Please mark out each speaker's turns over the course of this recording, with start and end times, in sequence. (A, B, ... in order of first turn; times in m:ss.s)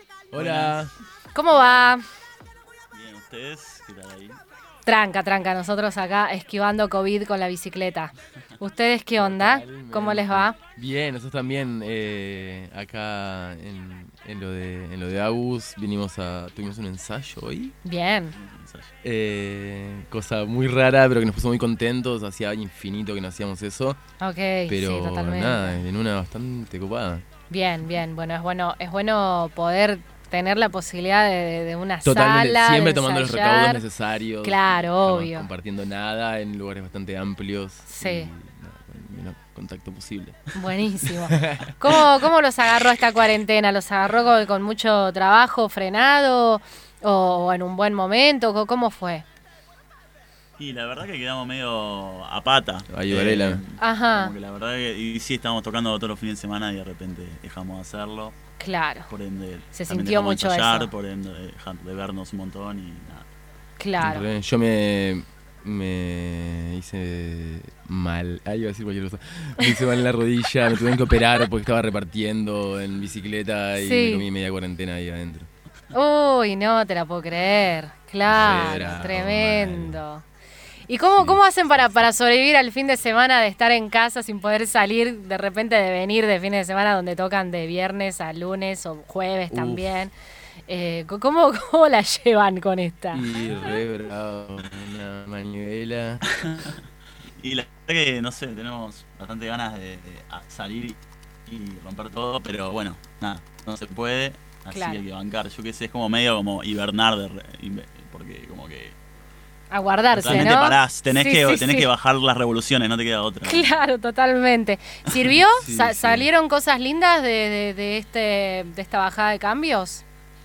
0:00.3-0:00.9 A
0:00.3-0:00.9 B
0:01.3-0:02.0 C
0:01.5-0:01.9 B
0:02.9-0:04.4 B
0:04.8-0:10.6 C
0:09.2-0:17.7 A
0:17.8-0:18.3 C
0:18.3-0:18.9 B
0:19.0-0:24.0 A
0:24.2-0:25.8 C
0:24.7-0:27.2 A
0:27.5-0:33.8 C
0:32.0-0:40.5 A
0:34.4-0:35.5 C
0:37.9-0:38.3 C
0:40.5-0:49.2 C
0:41.0-0:42.0 A
0:50.6-0:58.4 B
0:52.9-0:53.6 A
0:53.8-0:54.3 C
0:58.6-0:59.1 C
0:59.1-1:03.3 B
0:59.7-1:00.9 C
1:03.8-1:04.2 C
1:04.0-1:15.5 A
1:13.7-1:14.3 C
1:15.9-1:20.2 C
1:18.3-1:20.0 A
1:20.9-1:30.1 C
1:29.5-1:29.9 A
1:30.7-1:33.2 C
1:33.1-1:36.2 A
1:37.4-1:49.0 B
1:44.7-1:45.0 C
1:49.7-1:51.9 C
1:50.1-1:53.8 B
1:53.4-2:00.0 C
1:55.6-1:56.3 A